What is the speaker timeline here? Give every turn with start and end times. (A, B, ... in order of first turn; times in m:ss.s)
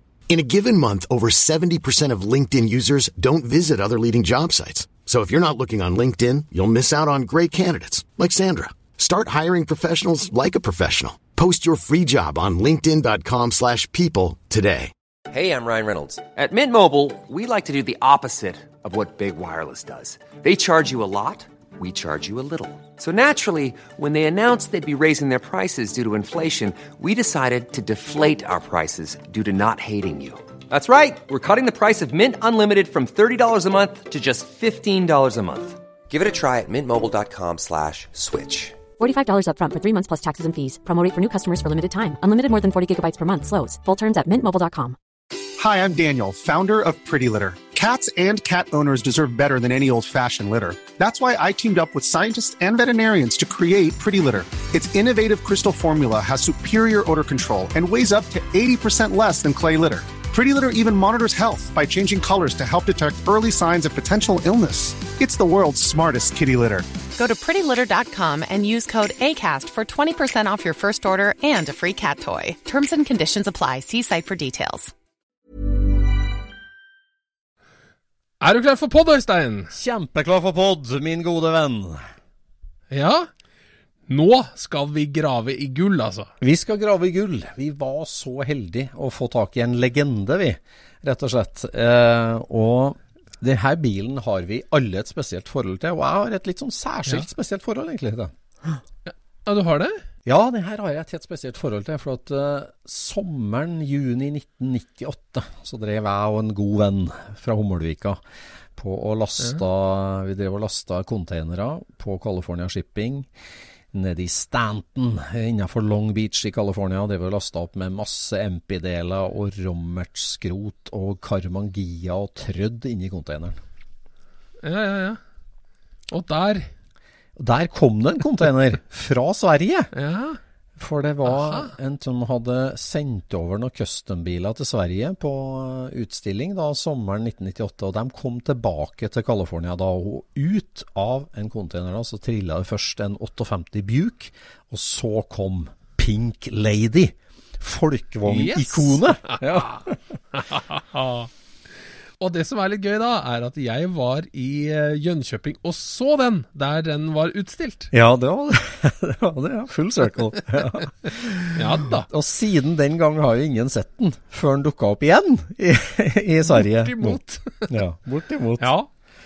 0:00.3-0:14.9 A
0:15.3-0:38.8 B
0:39.0-0:45.0 C
0:45.6-1:06.9 D
1:07.1-1:14.9 E
1:18.4-1:19.7 F
1:19.7-1:22.0 G
1:22.9-1:23.3 F
1:24.1-1:26.3 F
1:26.4-1:38.3 G
1:39.0-1:40.0 F
1:40.2-1:48.2 G
1:48.8-1:53.3 G
1:53.9-2:03.6 G
2:04.6-2:05.2 F
2:06.1-2:06.7 F
2:07.4-2:09.9 G
2:09.9-2:10.4 F
2:10.8-2:30.0 G
2:11.2-2:11.7 F
2:28.3-2:29.8 F
2:30.3-2:31.3 F
2:32.2-2:37.9 F
2:37.9-2:48.8 G
2:41.5-2:42.1 F
2:46.5-2:47.7 F
2:48.6-2:48.9 F